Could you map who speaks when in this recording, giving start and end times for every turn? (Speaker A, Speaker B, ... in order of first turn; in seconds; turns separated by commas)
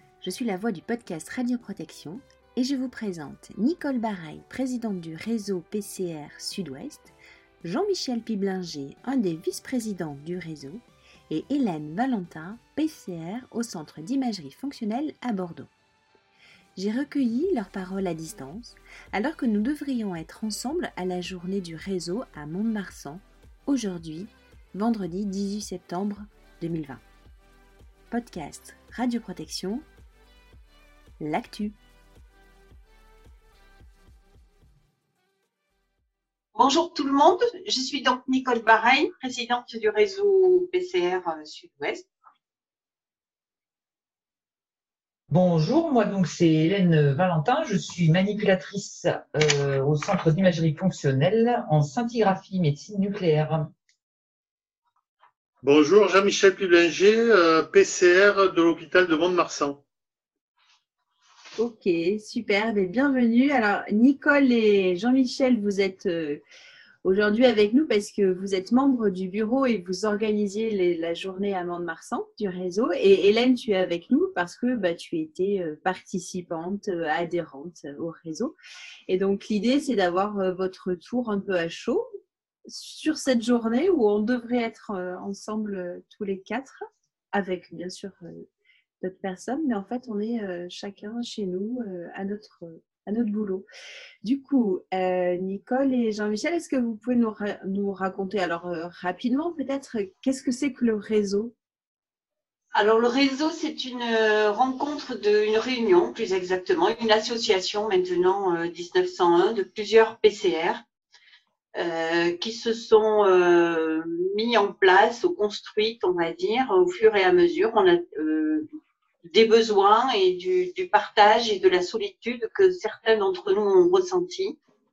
Speaker A: 0.2-15.7, Speaker A: 16.8-27.0, Speaker A: 28.1-29.9, Speaker A: 31.2-31.8, Speaker B: 36.5-42.1, Speaker C: 45.3-53.7, Speaker D: 55.6-59.8, Speaker A: 61.6-66.4, Speaker A: 67.0-78.5, Speaker A: 79.1-82.1, Speaker A: 82.7-86.8, Speaker A: 87.3-88.5, Speaker A: 89.0-93.7, Speaker A: 94.2-101.5, Speaker B: 102.7-110.8, Speaker B: 111.8-118.7, Speaker B: 119.3-124.6